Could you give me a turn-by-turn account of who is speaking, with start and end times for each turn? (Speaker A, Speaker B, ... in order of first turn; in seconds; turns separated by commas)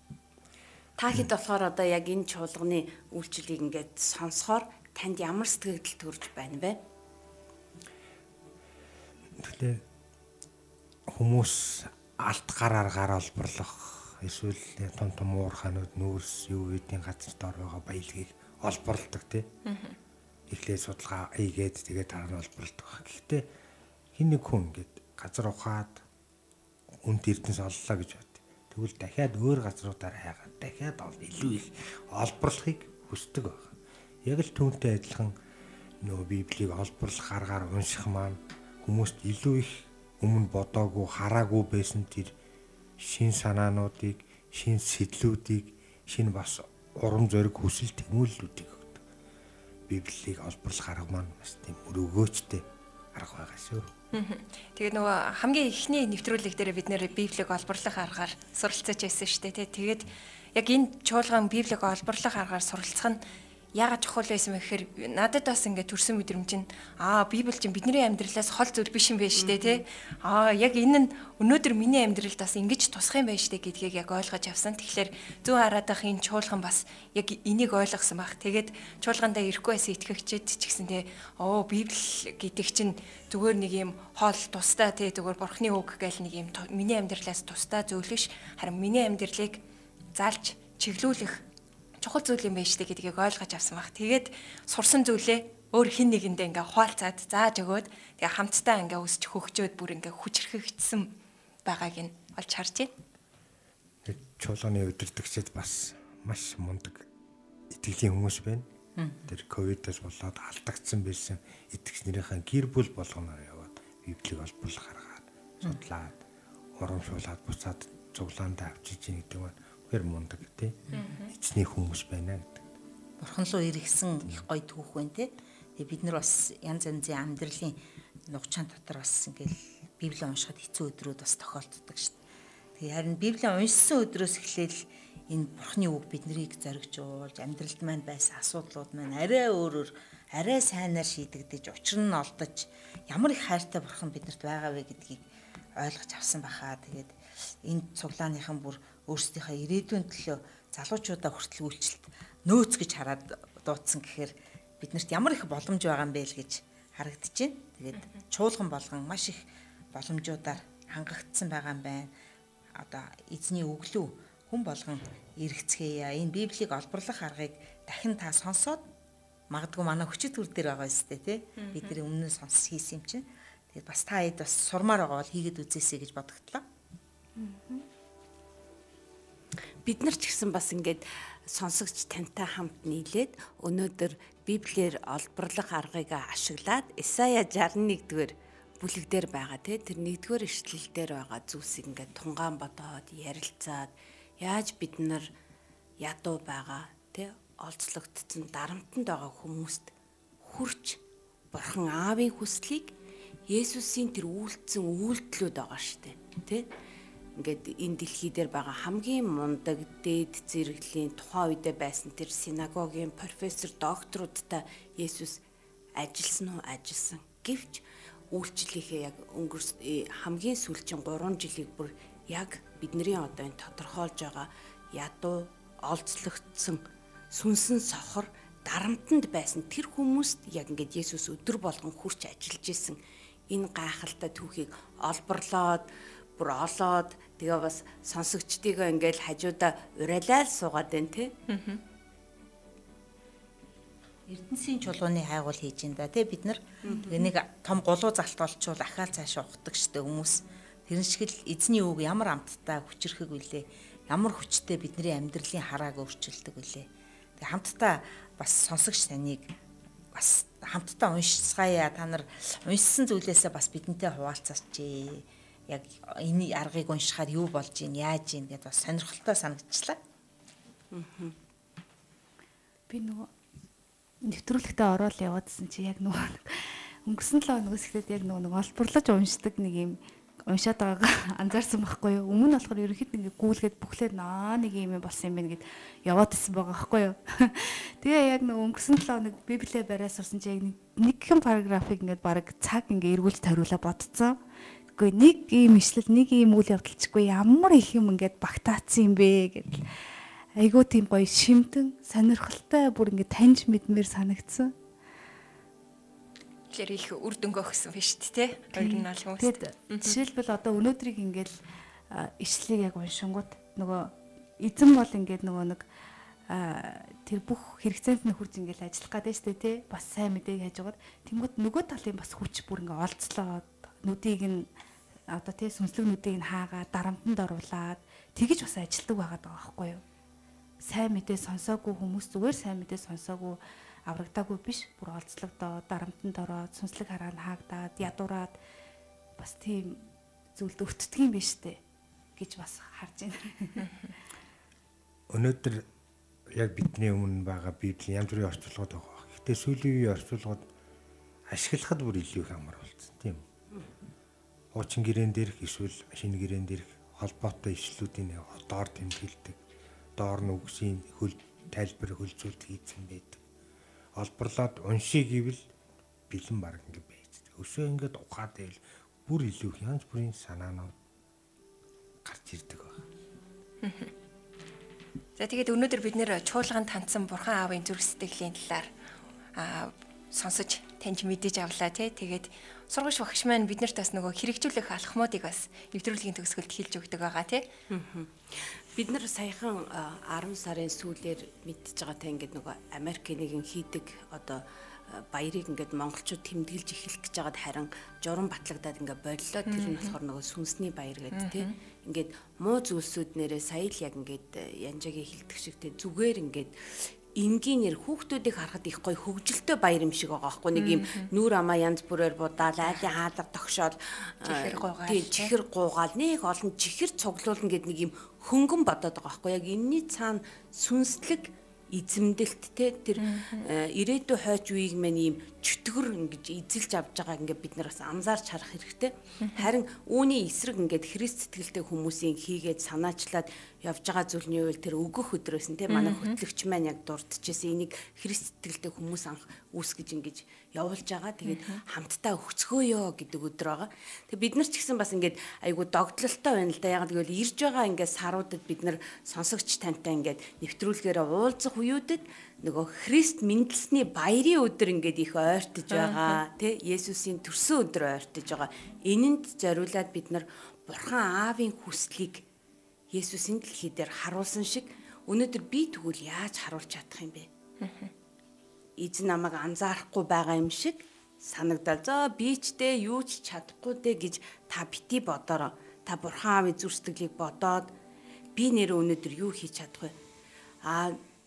Speaker A: 1.0-6.8, Speaker B: 9.4-9.8, Speaker B: 11.1-19.5, Speaker C: 19.7-20.0, Speaker B: 20.5-23.5, Speaker B: 24.1-26.0, Speaker B: 27.0-33.7, Speaker B: 34.2-35.3, Speaker B: 36.0-42.3, Speaker B: 43.0-49.0, Speaker B: 49.9-53.9, Speaker C: 54.1-63.2, Speaker C: 63.7-89.6, Speaker A: 69.4-69.8, Speaker C: 90.2-91.4, Speaker C: 92.0-101.1, Speaker C: 101.7-102.9, Speaker B: 104.0-107.1, Speaker B: 107.7-108.7, Speaker D: 109.0-109.2, Speaker B: 109.3-116.2, Speaker B: 116.8-122.7, Speaker C: 120.9-121.3, Speaker D: 123.2-132.2, Speaker D: 132.8-145.2, Speaker D: 145.8-162.1, Speaker D: 162.8-168.9, Speaker D: 169.5-176.7, Speaker C: 171.6-172.0, Speaker E: 177.4-177.9, Speaker A: 179.8-195.3, Speaker A: 196.0-199.9, Speaker A: 200.4-201.0, Speaker A: 201.5-202.9, Speaker A: 203.5-206.7, Speaker A: 207.4-215.4, Speaker A: 216.0-233.0, Speaker A: 233.5-235.9, Speaker A: 236.4-241.3, Speaker C: 241.5-241.8, Speaker D: 244.3-256.9, Speaker A: 246.8-247.3, Speaker D: 257.4-259.5, Speaker D: 260.1-270.0, Speaker A: 270.9-271.4, Speaker E: 272.9-273.3, Speaker E: 274.3-280.0, Speaker E: 280.5-294.4, Speaker E: 295.0-299.8, Speaker E: 300.6-304.7, Speaker C: 306.7-310.2, Speaker E: 308.8-311.5, Speaker E: 312.1-315.9, Speaker E: 316.5-324.7, Speaker E: 325.3-330.0, Speaker E: 330.9-338.5, Speaker E: 339.4-340.0, Speaker E: 340.6-341.8, Speaker E: 342.4-343.9, Speaker B: 345.3-345.9, Speaker B: 346.5-350.7, Speaker B: 351.5-353.4, Speaker B: 354.7-359.6, Speaker B: 360.2-363.4, Speaker B: 364.2-365.6, Speaker B: 366.3-370.9, Speaker B: 372.2-373.0, Speaker C: 373.8-374.1, Speaker C: 375.4-378.9, Speaker C: 379.6-387.7, Speaker A: 387.9-462.4, Speaker C: 399.7-400.1, Speaker C: 401.3-401.7, Speaker C: 410.8-411.3, Speaker C: 412.8-413.1, Speaker C: 414.4-415.5, Speaker C: 423.2-423.7, Speaker C: 435.9-436.4, Speaker C: 441.4-441.8, Speaker C: 455.9-456.4, Speaker A: 463.1-467.5, Speaker C: 467.8-468.1, Speaker A: 469.0-477.9, Speaker A: 478.6-480.1, Speaker A: 480.9-481.2